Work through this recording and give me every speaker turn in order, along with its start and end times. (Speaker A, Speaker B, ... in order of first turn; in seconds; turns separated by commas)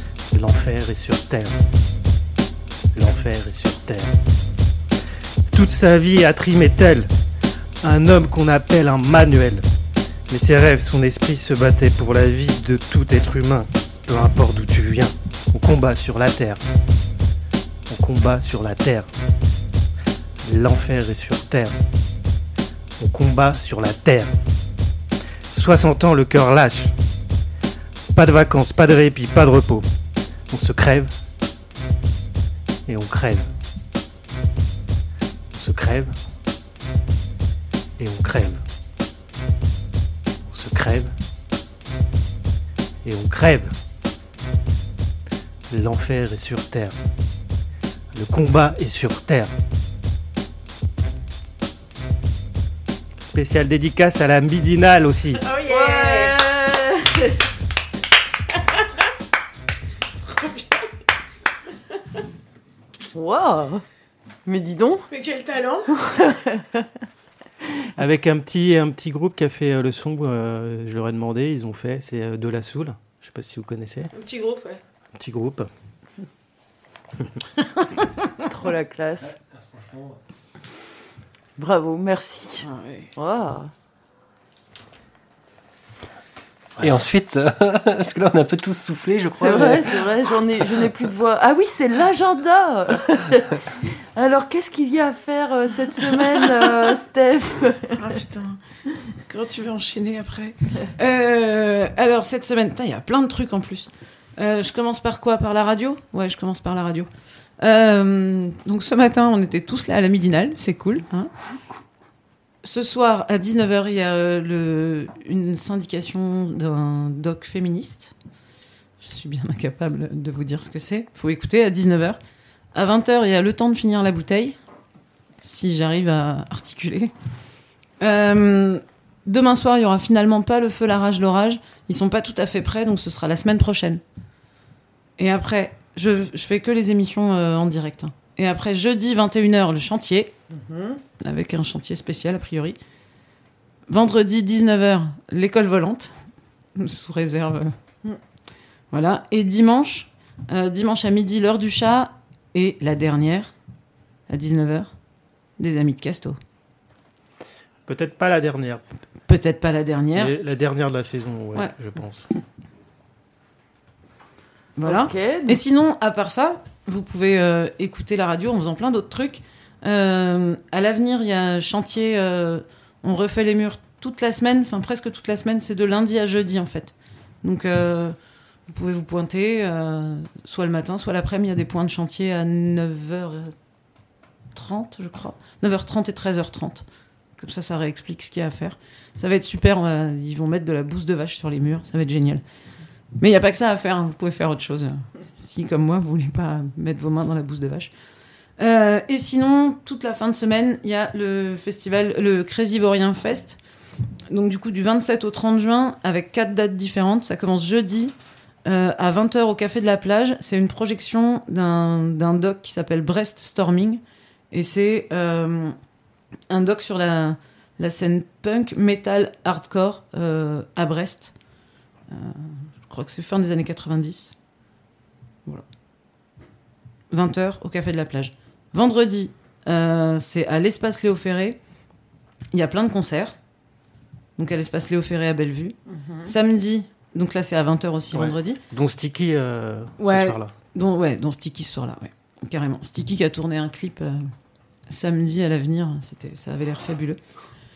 Speaker A: 0.3-1.6, Speaker A: 2.9-4.2, Speaker A: 5.5-7.1, Speaker A: 7.8-9.6, Speaker A: 10.3-16.6, Speaker A: 17.9-19.1, Speaker A: 20.4-21.8, Speaker A: 23.0-24.3, Speaker A: 25.5-26.9, Speaker A: 28.1-29.9, Speaker A: 30.5-31.1, Speaker A: 32.9-33.5, Speaker A: 35.5-36.1, Speaker A: 38.0-38.6, Speaker A: 40.5-41.1, Speaker A: 43.0-43.7, Speaker A: 45.7-47.0, Speaker A: 48.1-49.5, Speaker A: 53.3-55.4, Speaker B: 55.4-56.4, Speaker C: 55.6-57.3, Speaker B: 60.2-60.8, Speaker C: 63.1-63.8, Speaker C: 64.5-65.0, Speaker B: 65.1-66.2, Speaker C: 66.0-66.8, Speaker A: 68.0-74.1, Speaker B: 74.1-74.8, Speaker A: 75.1-75.7, Speaker C: 78.5-79.3, Speaker D: 79.2-80.2, Speaker C: 81.6-83.7, Speaker B: 82.6-83.1, Speaker D: 86.8-90.9, Speaker C: 89.3-98.0, Speaker B: 97.9-98.6, Speaker B: 99.2-111.3, Speaker B: 112.6-118.1, Speaker B: 119.0-122.2, Speaker B: 122.7-124.6, Speaker B: 125.4-127.1, Speaker B: 128.0-134.0, Speaker B: 135.2-140.3, Speaker C: 140.5-141.0, Speaker B: 141.2-142.8, Speaker B: 143.9-146.1, Speaker B: 146.7-147.7, Speaker B: 148.9-153.5, Speaker B: 154.3-154.9, Speaker B: 155.6-156.4, Speaker A: 157.8-158.8, Speaker B: 159.3-160.3, Speaker A: 160.1-162.2, Speaker B: 164.8-183.5, Speaker C: 164.8-165.6, Speaker B: 184.5-186.8, Speaker B: 187.4-192.4, Speaker B: 193.2-197.9, Speaker B: 198.6-203.6, Speaker B: 204.3-208.1, Speaker B: 208.6-214.0, Speaker B: 214.5-215.8, Speaker B: 216.5-221.3, Speaker B: 222.1-224.3, Speaker B: 227.1-231.6, Speaker B: 232.5-233.3, Speaker B: 234.4-238.6, Speaker C: 235.9-236.3, Speaker A: 238.1-240.5, Speaker B: 240.0-244.3, Speaker B: 244.9-247.2